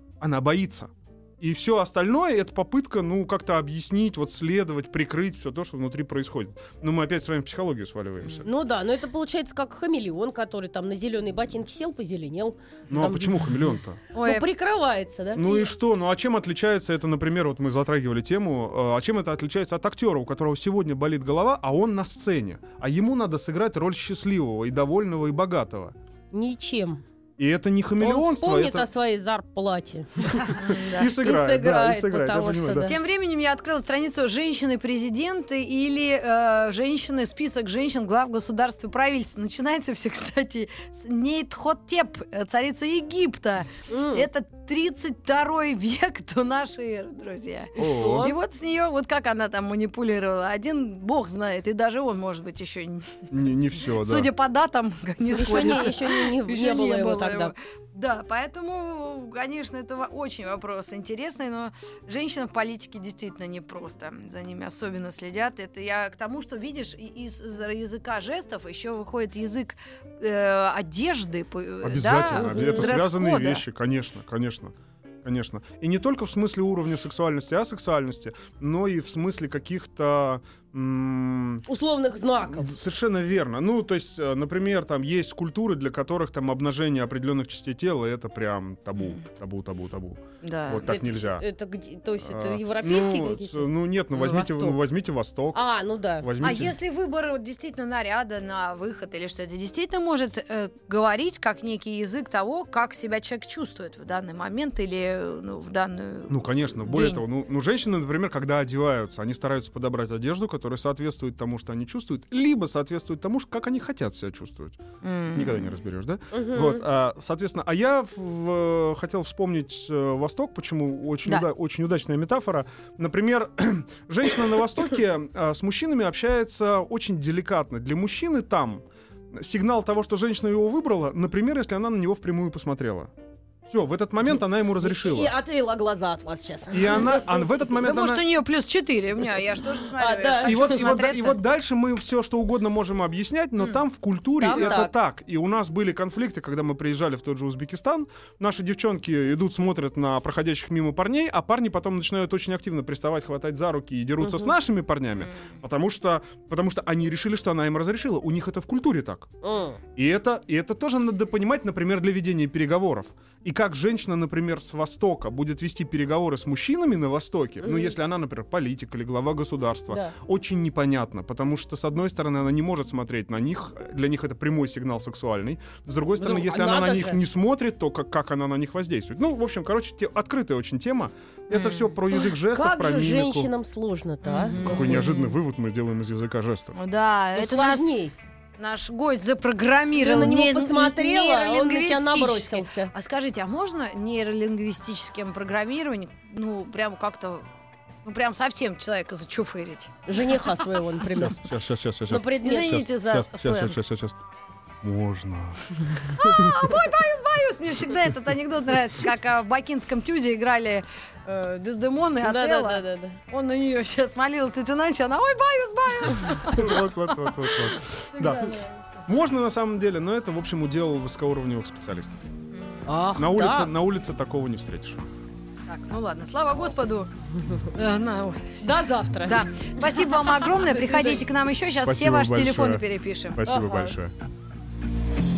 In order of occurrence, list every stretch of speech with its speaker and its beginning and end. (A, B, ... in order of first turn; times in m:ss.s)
0:00.2-0:08.5 A
0:08.4-0:13.5 B
0:12.9-0:14.0 A
0:14.2-0:14.5 C
0:14.2-0:15.7 B
0:15.3-0:26.0 A
0:26.3-0:27.0 B
0:27.4-0:28.9 A
0:28.0-0:33.0 B
0:30.3-0:32.9 A
0:30.6-0:31.1 C
0:32.8-0:53.3 C
0:43.9-0:44.3 B
0:47.8-0:48.4 B
0:47.8-0:48.3 A
0:53.3-0:54.3 A
0:53.9-1:13.6 C
0:55.3-0:57.5 B
1:11.8-1:21.7 A
1:12.3-1:12.9 B
1:21.7-1:22.7 B
1:22.5-1:31.4 A
1:29.0-1:29.2 C
1:30.4-1:30.9 C
1:30.8-1:34.7 B
1:32.2-1:35.6 A
1:35.5-1:36.3 B
1:36.2-1:36.8 A
1:36.4-1:47.2 C
1:46.3-1:54.8 A
1:55.0-1:55.7 C
1:55.3-2:13.1 A
1:56.3-1:56.8 B
2:13.7-2:15.3 A
2:14.8-2:17.3 B
2:16.7-2:18.2 A
2:17.8-2:21.4 C
2:20.0-2:20.9 B
2:20.4-2:39.3 A
2:24.4-2:24.9 B
2:34.2-2:34.6 B
2:35.2-2:35.5 C
2:39.4-2:39.8 B
2:40.0-3:03.5 A
2:47.6-2:47.9 B
2:49.9-2:50.2 B
2:56.2-2:57.2 B
3:01.5-3:01.9 C
3:02.1-3:05.0 B
3:04.2-3:05.4 C
3:04.6-3:06.8 A
3:06.8-3:07.9 C
3:07.4-3:08.1 B
3:08.6-3:17.5 C
3:10.0-3:12.9 B
3:18.0-3:20.6 C
3:20.1-3:21.5 B
3:21.1-3:24.2 A
3:22.1-3:22.8 B
3:22.4-3:23.8 C
3:24.8-3:26.7 A
3:26.1-3:36.8 C
3:32.2-3:33.2 B
3:36.4-3:42.2 A
3:38.1-3:38.8 C
3:42.6-3:42.8 C
3:42.9-3:43.7 B
3:43.2-3:45.0 A
3:45.7-3:48.7 C
3:48.6-3:49.4 B
3:49.2-3:53.4 C
3:51.8-3:54.1 A
3:53.4-3:54.0 B